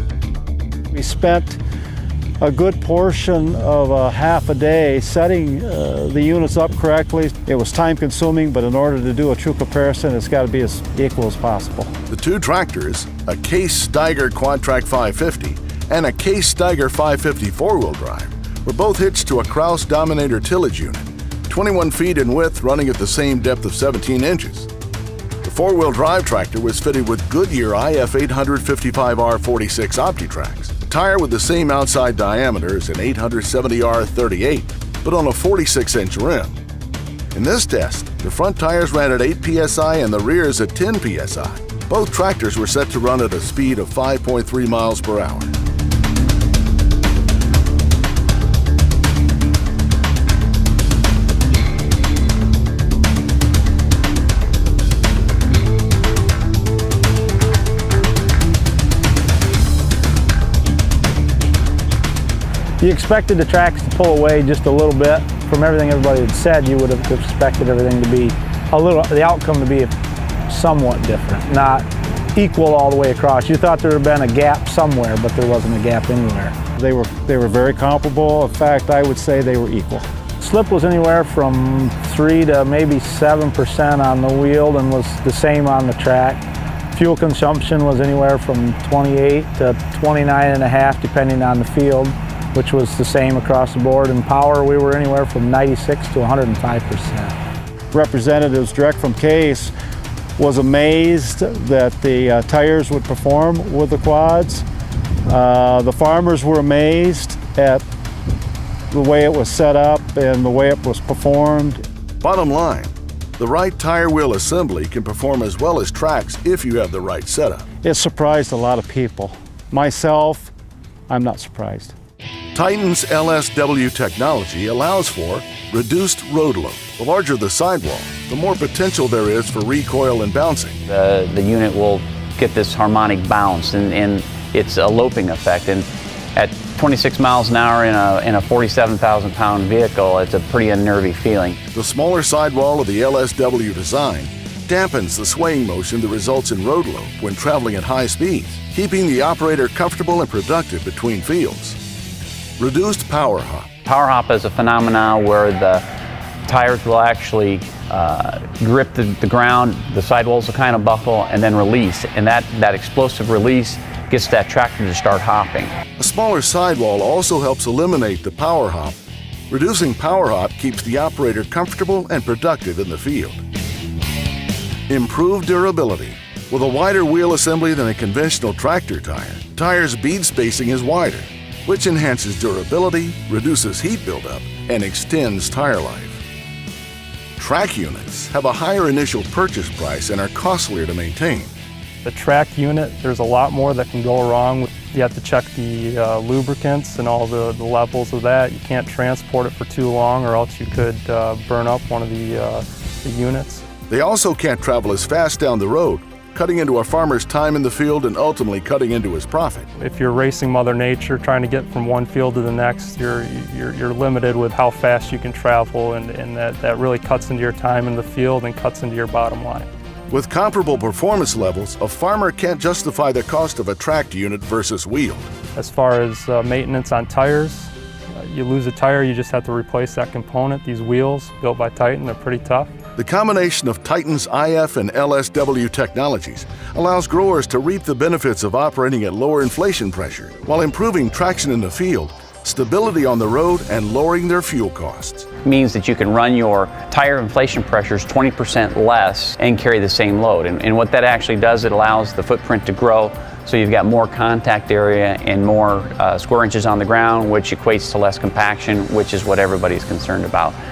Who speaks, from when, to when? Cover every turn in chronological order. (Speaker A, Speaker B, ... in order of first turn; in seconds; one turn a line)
Speaker A: 0.9-1.6
Speaker A: 2.4-11.9
Speaker B: 12.1-24.7
Speaker B: 25.4-36.6
Speaker B: 37.3-45.5
Speaker C: 62.8-69.9
Speaker C: 70.5-76.5
Speaker A: 76.8-80.1
Speaker C: 80.4-86.4
Speaker C: 86.9-97.3
Speaker A: 97.9-99.7
Speaker A: 100.4-104.7
Speaker A: 105.3-107.8
Speaker A: 108.9-111.8
Speaker B: 112.2-117.7
Speaker A: 117.8-120.5
Speaker A: 121.1-121.9
Speaker B: 122.5-130.8
Speaker D: 130.9-141.6
Speaker B: 141.7-151.8
Speaker B: 152.6-153.7
Speaker D: 153.9-155.8
Speaker D: 156.5-165.7
Speaker B: 166.0-169.0
Speaker B: 169.5-173.4
Speaker B: 174.9-186.2
Speaker B: 187.4-191.5
Speaker E: 192.0-203.7
Speaker B: 203.9-209.7
Speaker E: 209.8-219.7
Speaker B: 220.1-225.3
Speaker E: 225.6-232.7
Speaker B: 233.0-245.3
Speaker D: 245.4-260.6